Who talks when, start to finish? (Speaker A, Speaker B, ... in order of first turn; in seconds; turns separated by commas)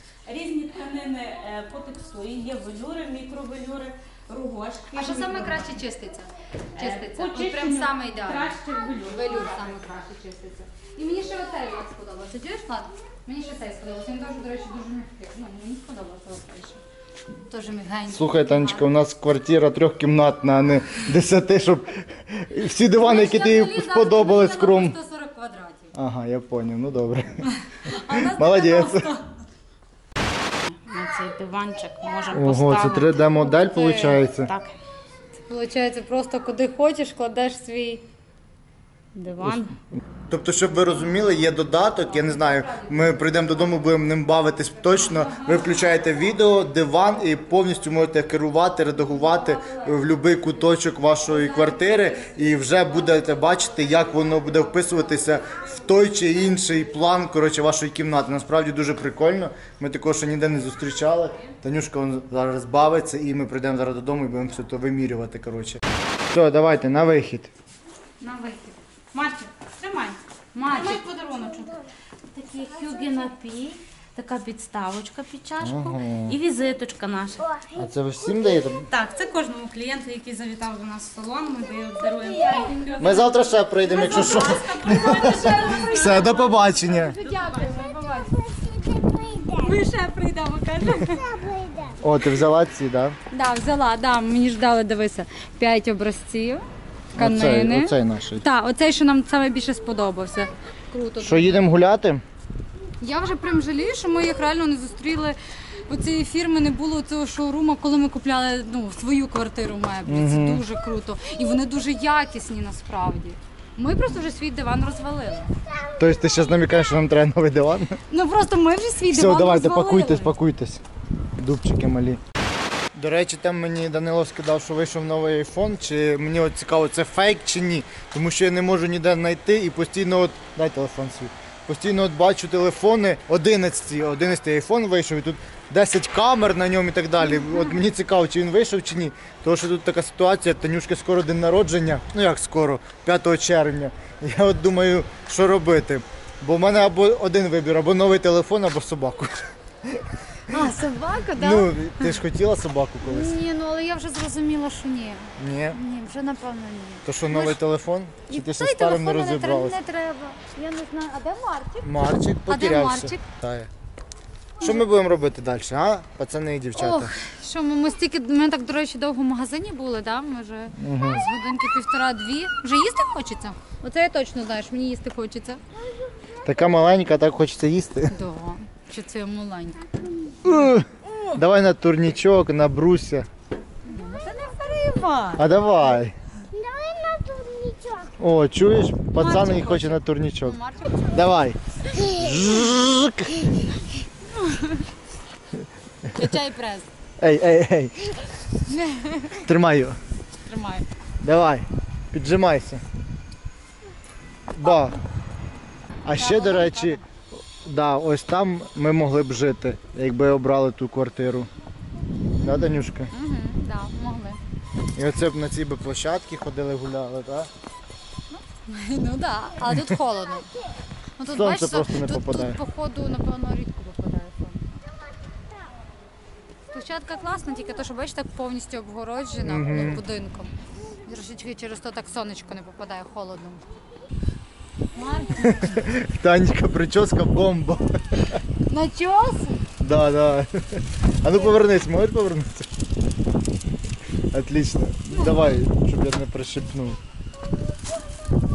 Speaker A: 0.2-5.7, Speaker B: 4.9-16.8, Speaker A: 6.8-9.7, Speaker B: 17.4-18.9, Speaker C: 18.1-24.9, Speaker B: 22.9-25.9, Speaker C: 25.9-29.1, Speaker B: 27.4-29.3, Speaker A: 30.7-34.8, Speaker C: 32.3-34.5, Speaker B: 33.6-34.2, Speaker B: 35.5-38.0, Speaker A: 39.1-39.8, Speaker C: 40.3-67.5, Speaker B: 42.0-43.5, Speaker B: 45.1-45.6, Speaker B: 51.6-52.2, Speaker B: 68.2-68.8, Speaker A: 69.1-77.6, Speaker B: 70.5-71.0, Speaker C: 75.6-76.4, Speaker C: 77.7-78.9, Speaker A: 78.8-87.8, Speaker B: 82.2-88.4, Speaker C: 83.0-87.2, Speaker D: 88.1-89.7, Speaker B: 89.4-91.3, Speaker D: 91.1-92.0, Speaker C: 92.0-93.2, Speaker B: 93.3-101.6, Speaker C: 97.2-98.4, Speaker C: 101.2-102.2, Speaker B: 103.0-115.5, Speaker C: 110.0-110.6, Speaker C: 115.9-118.0, Speaker B: 118.1-120.3, Speaker C: 119.1-120.8, Speaker C: 121.4-122.2, Speaker C: 122.9-150.6, Speaker B: 150.5-152.1, Speaker C: 151.3-153.4, Speaker B: 153.1-157.6, Speaker C: 155.4-155.8, Speaker C: 157.1-159.8, Speaker B: 158.3-161.9, Speaker C: 161.8-163.7, Speaker B: 162.5-163.2, Speaker C: 164.6-167.1, Speaker B: 166.7-175.6, Speaker C: 170.8-171.2, Speaker C: 176.4-178.1, Speaker B: 178.1-181.4, Speaker C: 180.4-183.3, Speaker B: 183.8-185.5, Speaker C: 185.3-186.1, Speaker D: 186.5-188.1, Speaker C: 188.2-193.6, Speaker B: 189.2-191.2, Speaker B: 194.2-194.8, Speaker B: 196.1-196.9, Speaker C: 197.2-198.2, Speaker B: 198.7-199.4, Speaker C: 199.4-200.0, Speaker B: 200.4-200.8, Speaker C: 201.2-202.8, Speaker C: 204.5-205.0, Speaker C: 206.0-207.0, Speaker B: 206.1-207.0, Speaker C: 207.5-211.5, Speaker C: 212.4-213.1, Speaker B: 213.1-214.4, Speaker C: 214.9-217.5, Speaker B: 218.3-220.5, Speaker B: 221.2-224.8, Speaker C: 221.3-222.6, Speaker B: 226.7-233.6, Speaker C: 229.4-230.0, Speaker B: 234.9-235.9, Speaker C: 235.5-238.3, Speaker B: 238.7-239.6, Speaker C: 239.8-242.7, Speaker C: 244.3-247.0, Speaker B: 245.1-245.6